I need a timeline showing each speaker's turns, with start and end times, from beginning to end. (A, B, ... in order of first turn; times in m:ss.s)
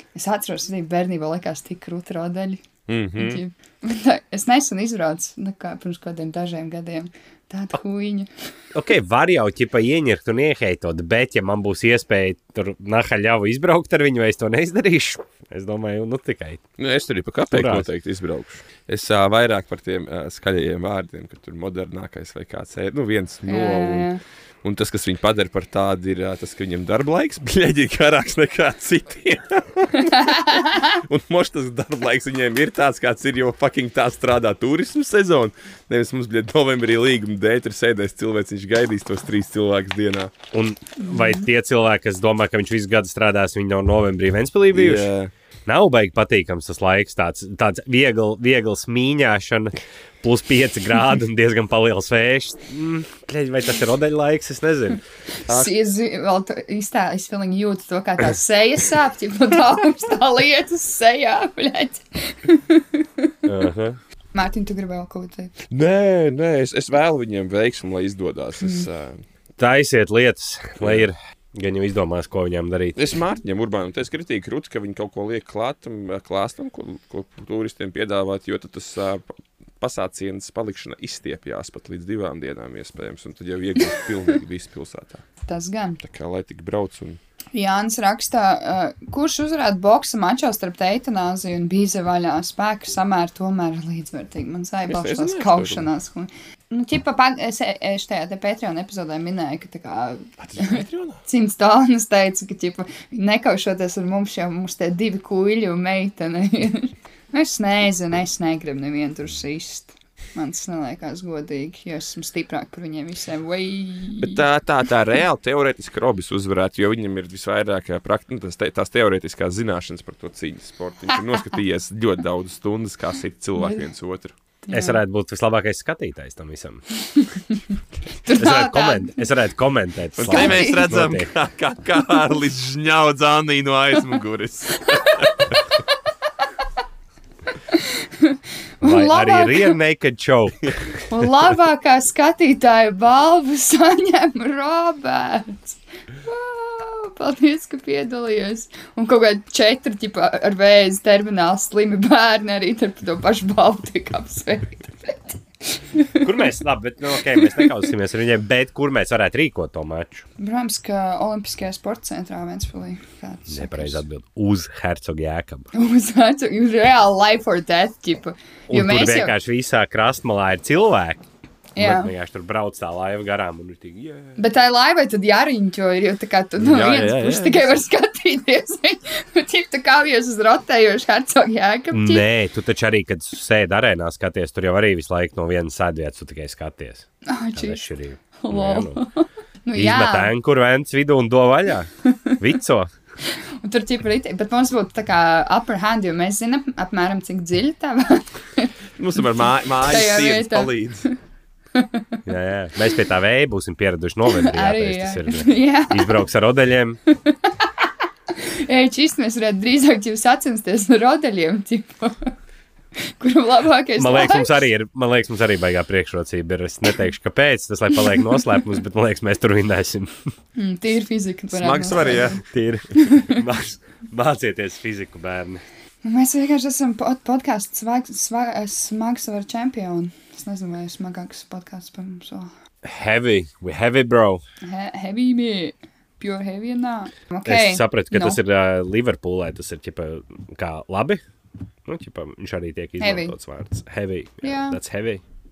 0:00.2-0:02.6 A
0:02.9-0:03.4 B
0:03.2-0:08.3 A
0:08.7-0:16.6 C
0:16.8-0:24.1 B
0:17.5-0:17.9 C
0:23.5-0:24.2 A
0:24.6-0:40.3 B
0:30.0-0:31.0 A
0:40.5-0:45.1 C
0:41.0-0:41.4 A
0:44.7-0:45.3 B
0:45.7-0:55.0 C
0:55.3-1:03.4 A
1:03.5-1:04.0 C
1:04.3-1:05.5 A
1:05.7-1:09.2 B
1:08.6-1:08.9 A
1:09.6-1:13.0 C
1:10.8-1:11.1 B
1:13.0-1:25.2 B
1:25.5-1:26.0 A
1:26.0-1:27.2 B
1:27.5-1:54.4 A
1:34.9-1:35.9 B
1:40.4-1:41.2 B
1:54.2-2:04.4 B
2:03.6-2:03.9 A
2:04.6-2:05.0 A
2:04.7-2:06.8 C
2:07.1-2:07.6 A
2:08.2-2:09.2 A
2:08.3-2:11.3 C
2:10.2-2:15.6 B
2:10.3-2:11.0 A
2:14.9-2:15.6 A
2:17.7-2:19.8 A
2:18.8-2:21.0 C
2:21.1-2:36.3 A
2:36.2-2:40.2 C
2:37.2-2:37.9 A
2:40.4-2:44.0 A
2:43.5-2:45.7 C
2:45.7-2:49.4 A
2:48.7-2:51.2 C
2:51.8-2:52.1 A
2:51.8-2:54.4 C
2:54.4-3:02.2 A
2:56.6-2:57.8 B
3:01.9-3:09.0 C
3:07.2-3:07.9 A
3:08.4-3:10.3 A
3:09.8-3:12.9 C
3:12.0-3:12.4 A
3:13.2-3:21.2 A
3:19.0-3:21.1 B
3:21.8-3:22.2 A
3:22.3-3:27.0 C
3:24.3-3:26.2 A
3:27.1-3:32.3 A
3:33.0-3:34.7 A
3:34.0-3:40.2 C
3:38.2-3:38.5 A
3:40.6-3:42.4 A
3:41.5-3:42.4 B
3:42.4-3:45.6 C
3:43.0-3:43.4 A
3:46.0-3:52.5 A
3:52.8-3:54.4 C
3:54.6-3:58.4 A
3:57.5-4:01.2 C
4:01.9-4:05.2 C
4:03.0-4:03.4 A
4:04.4-4:04.8 A